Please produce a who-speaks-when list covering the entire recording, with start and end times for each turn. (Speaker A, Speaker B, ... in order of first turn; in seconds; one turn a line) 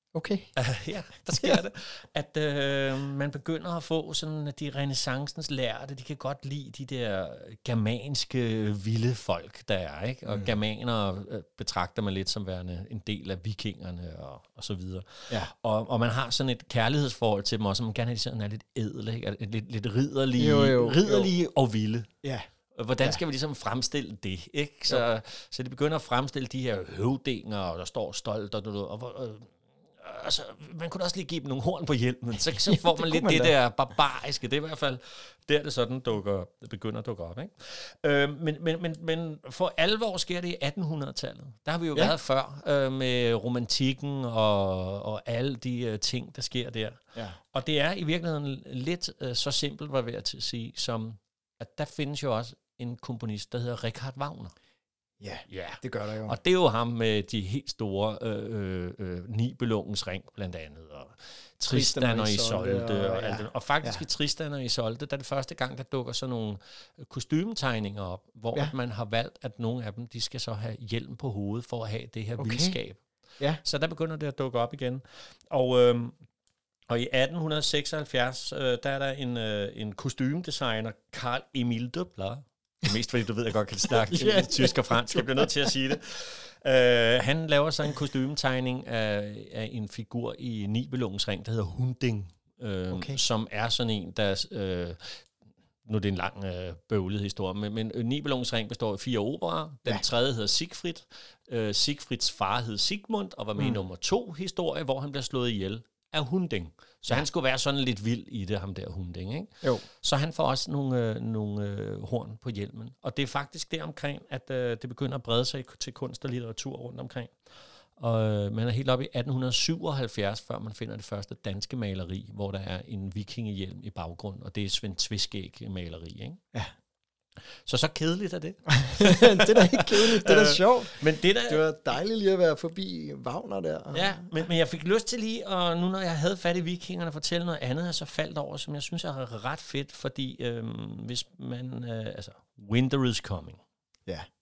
Speaker A: 0.1-0.5
Speaker B: 0.6-22.1
Speaker A: 20.4-21.3
Speaker B: 22.7-47.0
Speaker A: 32.5-33.5
Speaker B: 47.5-54.5
Speaker A: 55.2-56.4
Speaker B: 55.5-73.0
Speaker A: 61.6-64.0
Speaker A: 72.4-72.8
Speaker B: 73.6-76.2
Speaker B: 76.9-95.2
Speaker A: 84.0-85.7
Speaker A: 92.9-93.2
Speaker B: 95.8-117.3
Speaker B: 118.0-126.4
Speaker B: 127.7-131.6
Speaker A: 128.8-134.3
Speaker B: 133.9-143.6